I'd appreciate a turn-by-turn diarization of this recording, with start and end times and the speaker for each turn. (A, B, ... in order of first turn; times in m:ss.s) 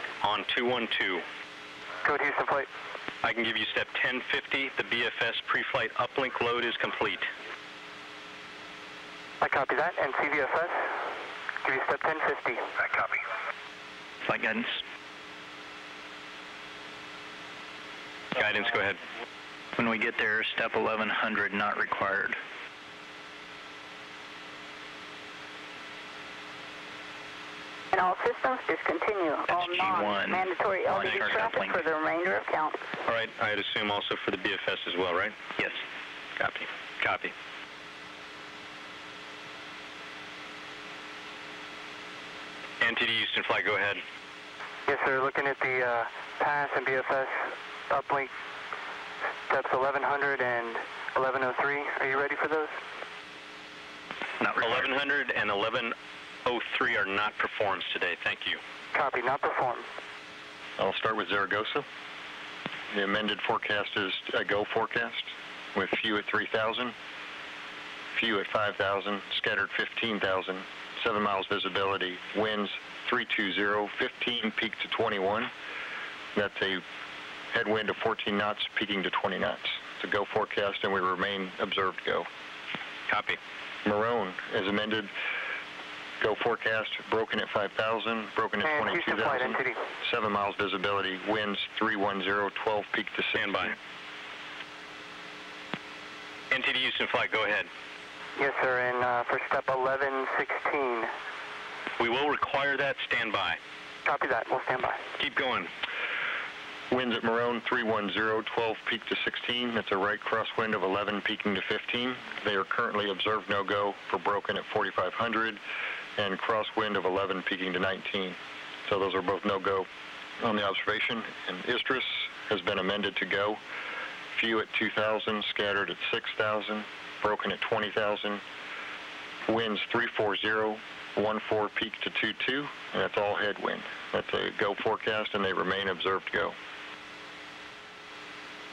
0:00.2-0:01.2 A
0:02.0-0:02.7 B
0:03.2-0:07.3 A
0:09.4-0:11.0 B
0:11.6-0:12.6 B
0:14.2-0:14.8 C
0:18.4-0:19.0 A
0:19.8-0:22.4 C
0:27.9-0:32.8 D
0:29.5-0:31.8 C
0:30.9-0:31.4 A
0:33.1-0:35.4 A
0:36.4-0:37.3 A
0:42.8-0:44.0 A
0:44.9-0:48.3 B
0:49.5-0:52.8 B
0:54.4-0:54.8 C
0:54.5-0:58.6 A
0:58.9-0:59.9 B
1:00.8-1:01.9 E
1:02.9-1:07.0 E
1:08.1-1:15.5 E
1:16.4-1:16.8 E
1:17.5-1:22.3 E
1:23.1-1:23.4 A
1:23.8-1:25.1 E
1:26.2-1:33.8 E
1:28.6-1:29.8 B
1:33.4-1:33.7 A
1:36.5-1:37.7 A
1:38.4-1:41.1 B
1:42.0-1:43.6 A
1:44.0-1:45.0 B
1:45.2-1:45.7 A
1:46.9-1:55.6 E
1:56.2-1:59.9 E
2:00.4-2:03.6 E
2:04.4-2:08.4 E
2:09.5-2:16.6 E